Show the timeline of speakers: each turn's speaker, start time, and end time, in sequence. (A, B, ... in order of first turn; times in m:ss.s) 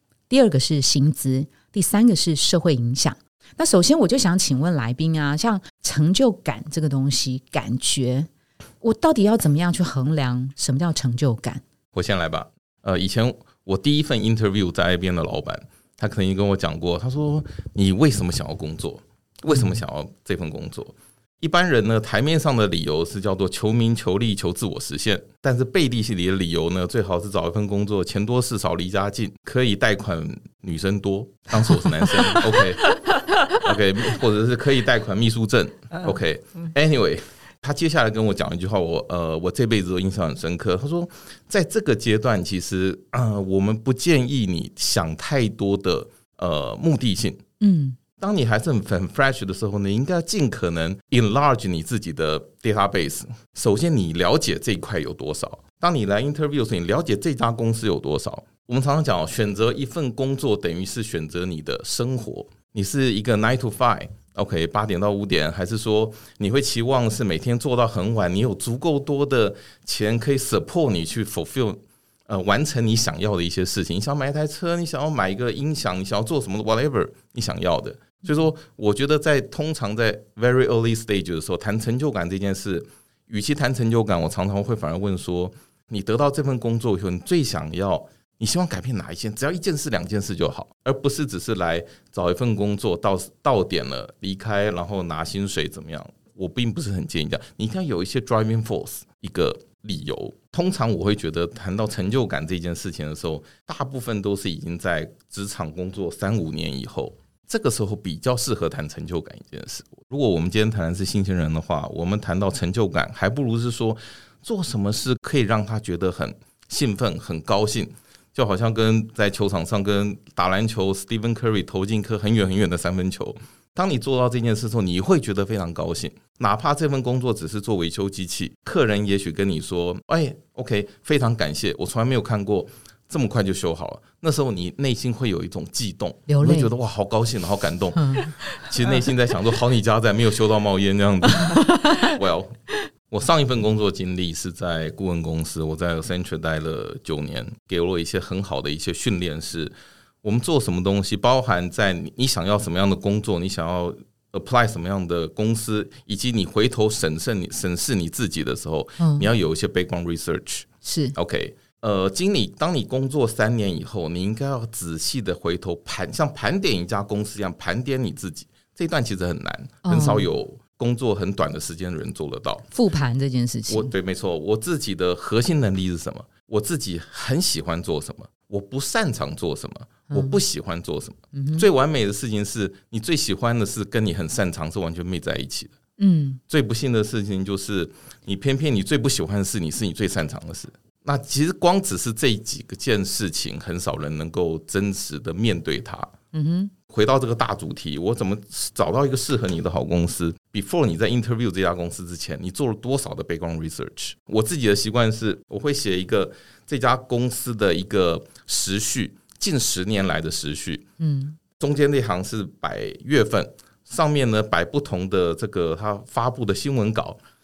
0:00.3-0:08.3 A
0:08.8-0:11.6 A
0:11.9-0:33.0 B
0:31.7-0:33.6 A
0:33.6-0:47.4 B
0:47.6-0:48.0 A
0:48.2-2:22.6 B
2:16.3-2:16.7 A
2:18.0-2:18.4 A
2:21.4-2:22.2 A
2:23.1-2:52.7 B
2:39.0-2:39.3 A
2:40.8-2:41.2 A
2:49.8-2:50.3 A
2:52.7-2:53.9 A
2:53.7-3:05.7 B
3:00.1-3:00.4 A
3:01.3-3:01.7 A
3:06.0-3:06.4 A
3:06.5-3:16.1 B
3:16.3-3:16.7 A
3:16.9-3:30.9 B
3:31.0-3:31.4 A
3:31.6-3:37.2 B